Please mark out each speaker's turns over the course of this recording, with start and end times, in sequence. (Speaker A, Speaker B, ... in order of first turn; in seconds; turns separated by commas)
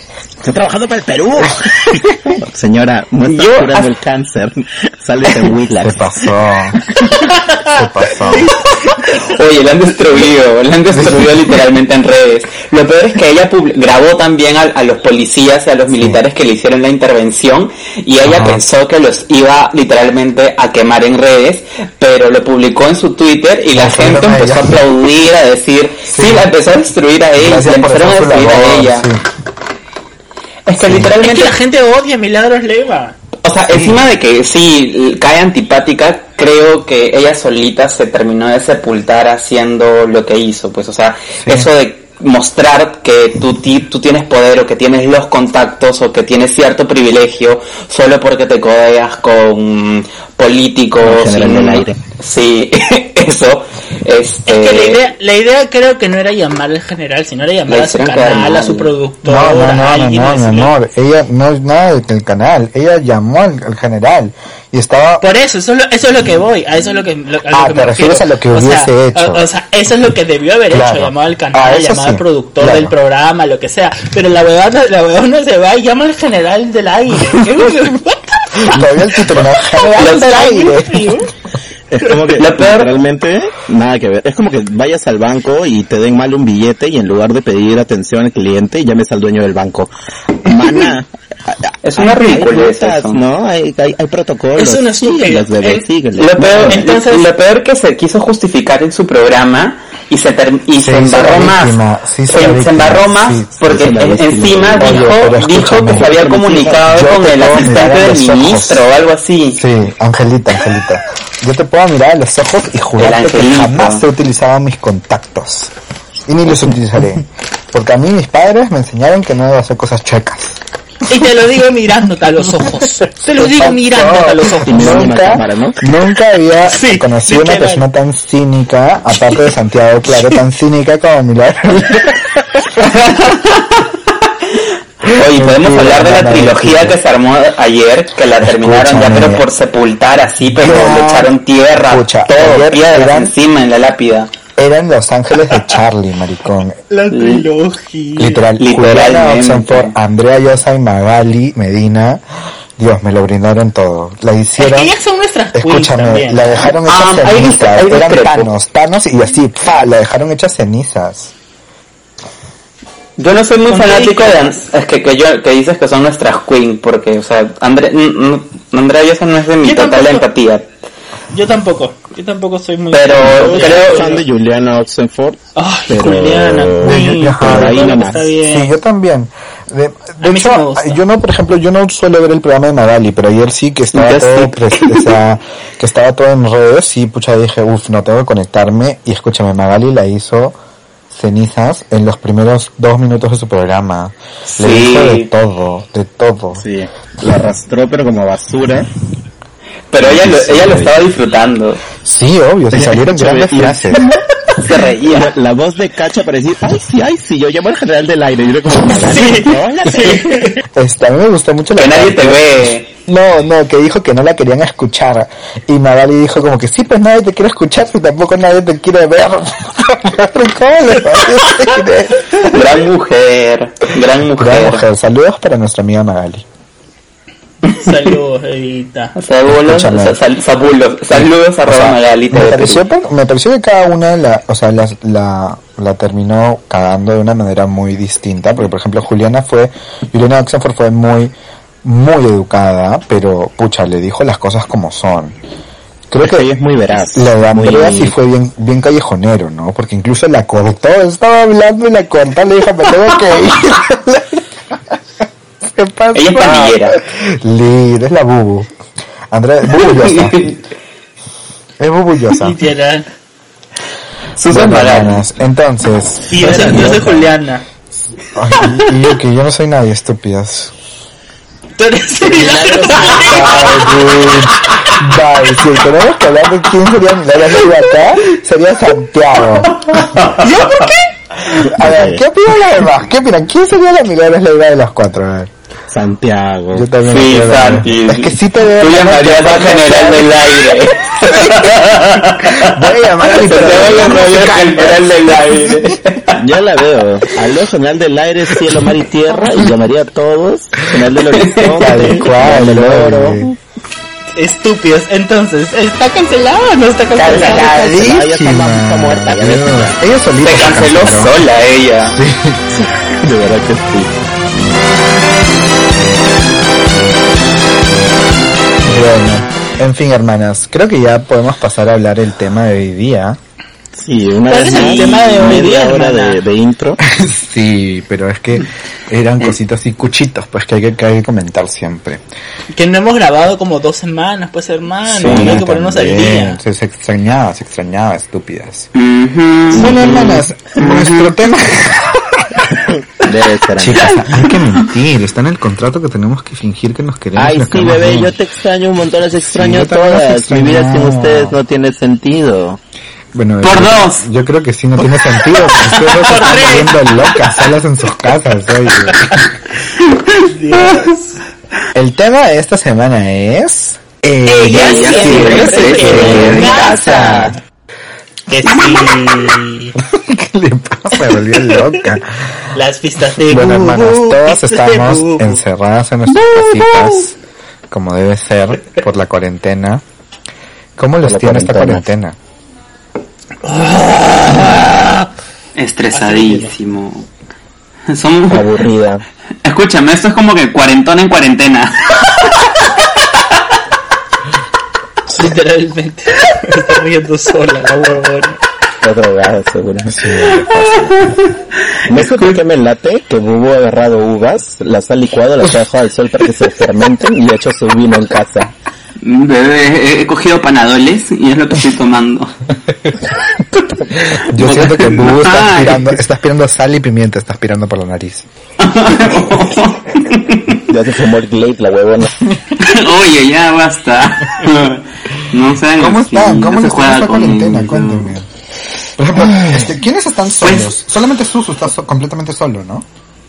Speaker A: 0.4-6.1, Speaker B: 3.2-3.9, Speaker C: 5.7-6.8, Speaker D: 7.2-8.9, Speaker C: 7.6-8.6, Speaker B: 9.1-29.1, Speaker C: 10.9-11.4, Speaker C: 15.9-16.2, Speaker C: 18.2-18.6, Speaker C: 23.7-24.8, Speaker C: 26.1-26.5, Speaker C: 27.4-29.2, Speaker B: 30.7-31.6, Speaker C: 30.8-31.2, Speaker D: 31.1-33.2, Speaker B: 33.4-55.0, Speaker C: 33.7-34.1, Speaker C: 41.4-41.7, Speaker A: 51.0-52.0, Speaker D: 54.5-60.7, Speaker B: 57.7-58.9, Speaker C: 59.2-65.2, Speaker D: 65.2-81.3, Speaker C: 67.5-69.5, Speaker C: 70.7-73.0, Speaker C: 78.6-81.2, Speaker B: 80.0-80.3, Speaker A: 81.9-89.9, Speaker B: 82.4-83.0, Speaker A: 90.4-96.9, Speaker B: 91.8-93.2, Speaker D: 94.6-95.9, Speaker B: 96.2-109.6, Speaker D: 96.5-97.3, Speaker C: 100.8-103.9, Speaker A: 103.7-105.3, Speaker C: 104.8-106.2, Speaker A: 105.9-106.8, Speaker C: 106.8-108.9, Speaker C: 109.5-115.7, Speaker B: 113.0-114.0, Speaker C: 116.3-120.6, Speaker D: 121.1-125.3, Speaker C: 123.2-132.8, Speaker A: 124.2-125.8, Speaker D: 126.7-127.9, Speaker B: 132.8-133.6, Speaker B: 135.0-144.3, Speaker C: 135.1-137.0, Speaker C: 138.4-139.4, Speaker C: 140.6-143.3, Speaker C: 144.6-146.8, Speaker D: 146.9-148.4, Speaker B: 147.1-147.4, Speaker C: 148.2-152.2, Speaker B: 148.6-149.9, Speaker C: 152.8-154.9, Speaker D: 154.6-156.7, Speaker C: 155.5-161.3, Speaker B: 156.8-158.5, Speaker B: 163.2-170.7, Speaker D: 163.7-164.7, Speaker D: 169.6-170.3, Speaker D: 171.3-174.2, Speaker B: 172.9-174.2, Speaker A: 173.2-178.3, Speaker D: 175.6-178.7, Speaker C: 176.8-190.6, Speaker D: 180.2-181.0, Speaker B: 183.9-185.2, Speaker C: 191.1-196.7, Speaker B: 194.5-195.3, Speaker A: 196.6-198.9, Speaker B: 199.9-201.8, Speaker A: 200.0-200.9, Speaker C: 202.0-204.0, Speaker A: 202.7-210.5, Speaker B: 204.6-205.3, Speaker D: 208.8-210.6, Speaker C: 210.7-222.4, Speaker B: 211.8-212.9, Speaker B: 222.3-224.8, Speaker C: 224.4-226.4, Speaker B: 227.7-227.9, Speaker D: 227.7-229.1, Speaker B: 229.2-232.8, Speaker C: 229.5-230.2, Speaker C: 231.1-241.3, Speaker C: 241.8-245.4, Speaker C: 246.1-246.5, Speaker A: 246.2-248.1, Speaker C: 247.1-255.0, Speaker C: 255.6-258.7, Speaker B: 256.1-257.0, Speaker C: 259.3-260.5, Speaker B: 259.7-260.6, Speaker C: 261.8-262.6, Speaker D: 262.4-263.1, Speaker B: 264.4-265.3, Speaker C: 264.5-267.0, Speaker D: 266.3-267.6, Speaker A: 266.3-267.3, Speaker C: 268.3-270.7, Speaker D: 271.8-274.1, Speaker A: 272.2-273.8, Speaker C: 273.2-280.2, Speaker B: 279.8-280.9, Speaker D: 280.4-281.1, Speaker C: 281.5-285.5, Speaker A: 281.6-282.2, Speaker A: 285.9-286.9, Speaker C: 286.7-290.6, Speaker B: 287.0-296.4, Speaker C: 291.2-291.7, Speaker C: 292.5-295.9, Speaker A: 296.3-303.6, Speaker B: 301.3-302.3, Speaker C: 301.8-303.5, Speaker D: 304.4-307.7, Speaker B: 307.2-308.0, Speaker A: 307.2-310.0, Speaker C: 307.3-311.4, Speaker B: 310.4-312.2, Speaker C: 312.1-312.6, Speaker A: 312.7-314.1, Speaker C: 318.8-323.4, Speaker A: 323.9-327.0, Speaker D: 324.5-326.4, Speaker B: 324.7-325.4, Speaker C: 327.1-332.2, Speaker D: 332.7-336.6, Speaker C: 335.1-338.9, Speaker A: 335.2-335.6, Speaker B: 338.9-341.4, Speaker A: 339.7-340.5, Speaker C: 339.7-342.7, Speaker A: 342.8-344.3, Speaker C: 343.8-348.4, Speaker B: 343.9-344.5, Speaker A: 347.4-352.8, Speaker C: 349.4-351.6, Speaker C: 353.3-359.5, Speaker B: 353.6-354.3, Speaker D: 355.6-357.5, Speaker D: 360.4-361.4, Speaker C: 361.9-367.6, Speaker D: 364.4-367.5, Speaker B: 364.6-367.0, Speaker A: 364.8-367.6, Speaker D: 368.5-369.9, Speaker C: 370.0-372.7, Speaker D: 371.2-371.9, Speaker D: 372.7-375.6, Speaker C: 373.3-377.4, Speaker D: 376.8-377.2, Speaker C: 377.9-380.0, Speaker C: 381.0-382.4, Speaker A: 381.3-382.1, Speaker D: 383.6-385.3, Speaker B: 385.8-387.3, Speaker D: 386.1-386.7, Speaker B: 388.1-388.7, Speaker A: 388.5-389.2, Speaker B: 389.6-392.7, Speaker D: 395.3-398.6, Speaker A: 399.0-400.6, Speaker C: 400.1-401.3, Speaker B: 400.8-401.5, Speaker A: 402.1-408.7, Speaker B: 402.1-402.6, Speaker B: 409.2-412.5, Speaker C: 414.2-418.5, Speaker B: 414.5-416.1, Speaker B: 418.8-420.8, Speaker A: 420.9-422.4, Speaker B: 422.8-428.3, Speaker C: 426.0-428.5, Speaker C: 429.2-433.1, Speaker B: 430.6-430.9